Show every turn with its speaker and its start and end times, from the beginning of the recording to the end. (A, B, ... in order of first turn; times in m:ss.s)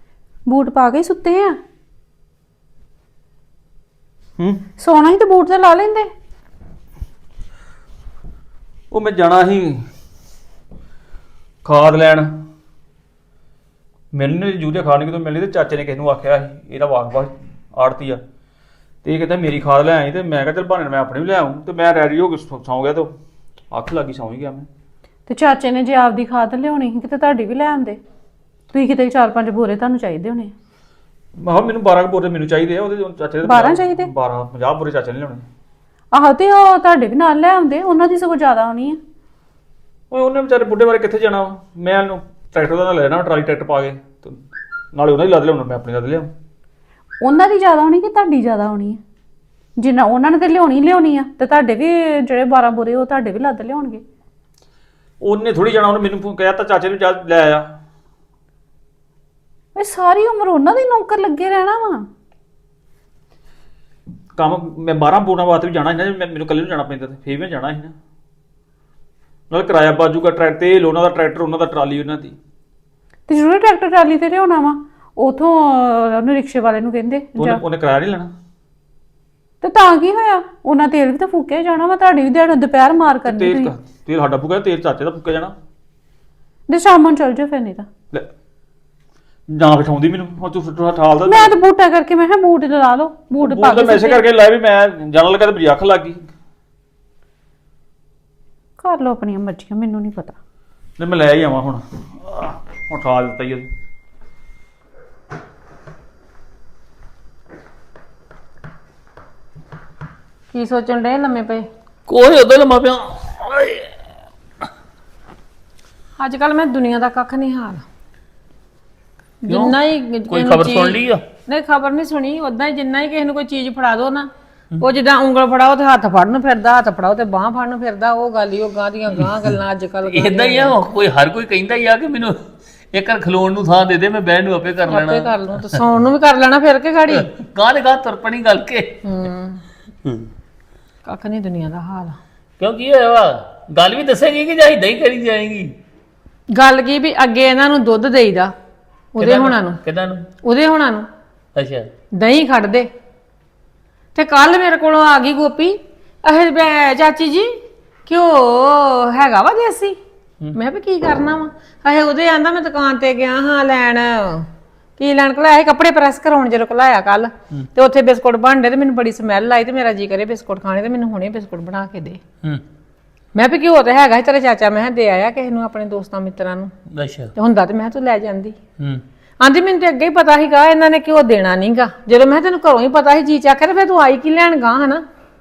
0:00.5-0:01.6 A
0:04.4-0:04.6 B
0:04.8-0:06.1 A
0:08.9-0:09.9 B
0:11.6-0:12.4 B
0:14.1-0:18.2 B
0:19.0-0:23.1 B
0:23.7-0:24.7 B
0:25.3-0:28.0 A
0:28.7-0:30.5 A
0:31.4-0:35.5 B
0:33.4-0:34.1 A
0:36.1-0:39.0 A
0:40.1-0:46.3 B
0:47.2-0:49.0 A
0:49.8-0:54.0 A
0:55.2-0:57.8 B
0:59.8-1:02.1 A
1:04.4-1:08.0 B
1:09.5-1:12.4 B
1:13.3-1:17.6 A
1:17.4-1:18.3 B
1:19.6-1:23.7 A
1:23.2-1:25.6 B
1:26.7-1:27.9 A
1:29.5-1:31.5 B
1:31.3-1:34.2 A
1:33.4-1:36.3 B
1:38.8-1:40.4 A
1:41.0-1:43.7 B
1:50.5-1:51.7 C
1:52.1-1:54.0 D
1:56.2-1:57.9 C
1:59.4-2:10.7 C
1:59.5-1:59.8 D
2:00.3-2:01.2 D
2:09.2-2:09.6 D
2:10.1-2:12.4 D
2:12.9-2:15.8 D
2:14.9-2:17.3 C
2:17.1-2:19.0 D
2:19.0-2:19.6 C
2:21.1-2:22.2 C
2:22.6-2:25.8 D
2:26.5-2:28.5 C
2:29.2-2:29.8 C
2:29.2-2:30.3 D
2:30.4-2:31.1 C
2:31.6-2:31.9 D
2:32.1-2:32.9 C
2:34.2-2:37.5 C
2:38.1-2:40.0 C
2:40.6-2:52.2 C
2:53.4-2:56.7 C
2:56.9-2:57.3 D
2:57.4-2:58.6 C
2:59.4-3:05.1 C